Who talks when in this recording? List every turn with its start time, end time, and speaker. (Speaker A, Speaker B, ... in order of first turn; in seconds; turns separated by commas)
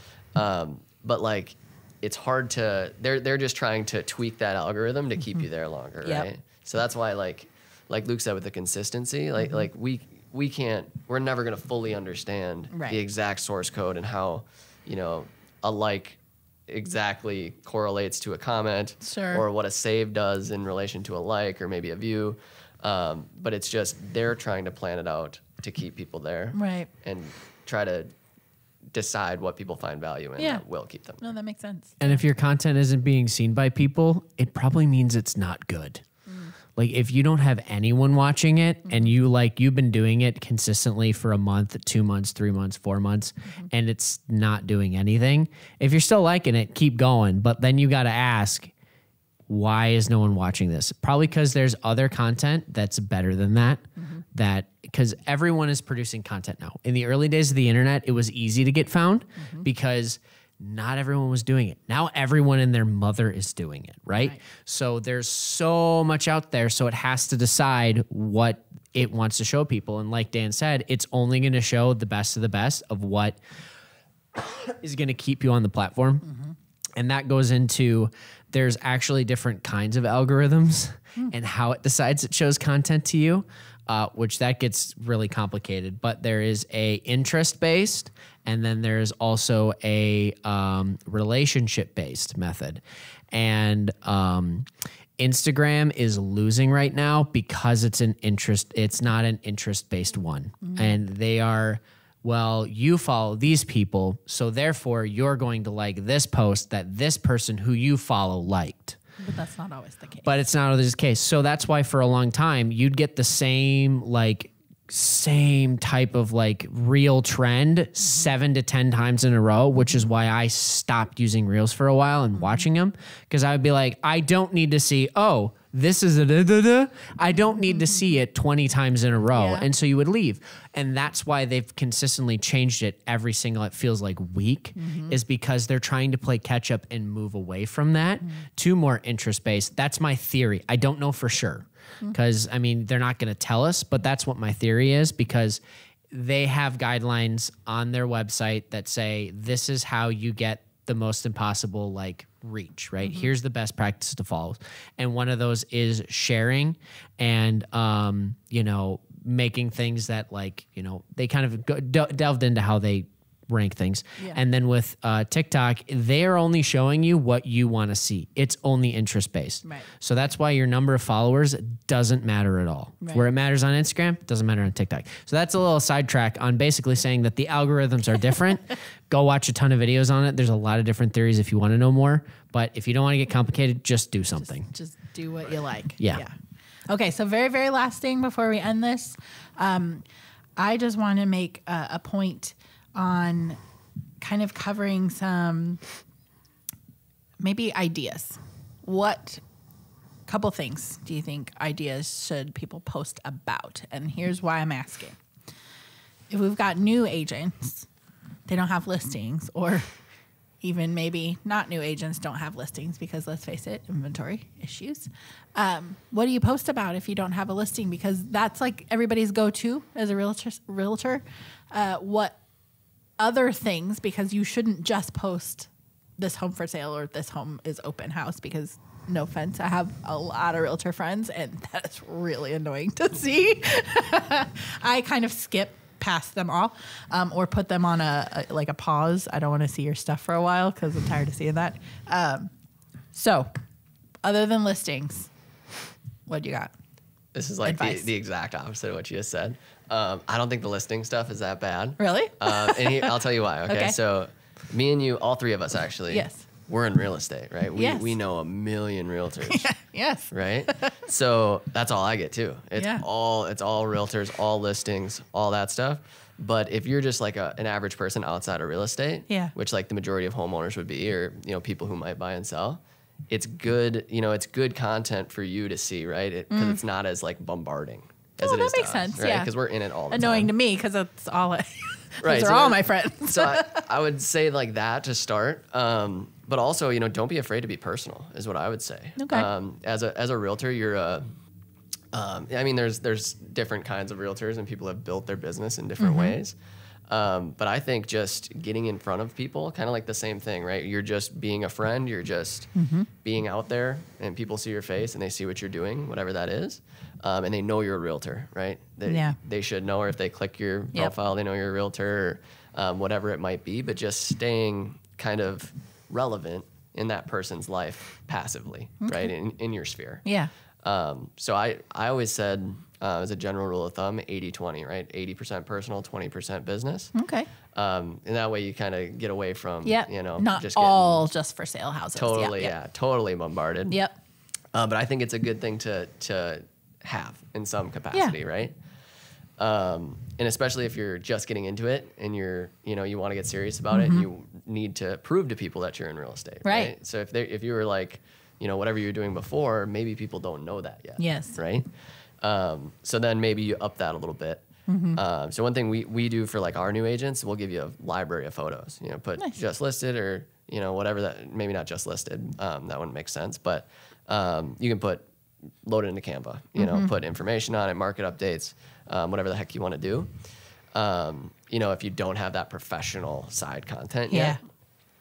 Speaker A: 0.3-28.1, Speaker B: 6.0-6.3, Speaker B: 12.7-13.0, Speaker B: 19.0-19.4, Speaker B: 26.5-26.9, Speaker A: 28.9-31.2, Speaker B: 30.4-30.6, Speaker B: 31.2-32.2, Speaker C: 32.0-36.0, Speaker B: 36.3-36.5, Speaker C: 36.8-48.7, Speaker C: 49.5-73.4, Speaker B: 54.0-54.2, Speaker B: 59.4-59.7, Speaker C: 74.3-76.3, Speaker B: 76.3-76.5, Speaker C: 77.0-109.0, Speaker B: 100.6-101.0, Speaker B: 109.2-110.3, Speaker C: 110.2-184.7, Speaker B: 118.0-118.3, Speaker B: 122.4-122.6, Speaker B: 129.3-129.7, Speaker B: 134.8-135.2, Speaker B: 153.0-153.3, Speaker B: 184.5-186.3, Speaker C: 186.0-186.2, Speaker B: 186.9-190.1, Speaker B: 190.6-193.6, Speaker B: 194.2-195.8, Speaker B: 197.4-199.4, Speaker B: 200.3-205.2, Speaker B: 206.3-207.9, Speaker B: 208.5-209.9, Speaker B: 210.6-222.4, Speaker B: 223.2-242.5, Speaker B: 243.1-243.5, Speaker B: 244.2-245.3, Speaker B: 246.3-246.7, Speaker A: 247.3-259.7, Speaker B: 247.7-248.1, Speaker B: 252.0-253.1, Speaker B: 253.7-253.9, Speaker B: 256.1-256.4, Speaker B: 257.8-258.1, Speaker B: 259.5-261.0, Speaker A: 260.3-280.5, Speaker B: 262.8-263.0, Speaker B: 276.5-276.8, Speaker B: 278.4-279.5, Speaker B: 280.1-283.9, Speaker A: 282.2-291.3, Speaker B: 289.2-289.5, Speaker A: 292.1-296.6, Speaker B: 296.0-296.4, Speaker A: 297.1-320.3, Speaker B: 302.8-303.1, Speaker B: 309.1-309.4, Speaker B: 319.0-319.3, Speaker B: 320.2-320.5, Speaker A: 320.8-327.1, Speaker B: 327.1-327.5, Speaker A: 327.8-331.2, Speaker B: 329.8-332.7, Speaker A: 332.2-334.0, Speaker B: 333.9-334.2, Speaker A: 334.7-338.8, Speaker A: 339.6-351.9, Speaker B: 343.9-344.3, Speaker B: 346.6-346.9, Speaker B: 351.2-351.6, Speaker A: 352.4-365.3, Speaker B: 354.9-355.2, Speaker A: 365.8-370.3, Speaker B: 366.8-367.1, Speaker A: 370.9-374.6, Speaker B: 374.3-374.6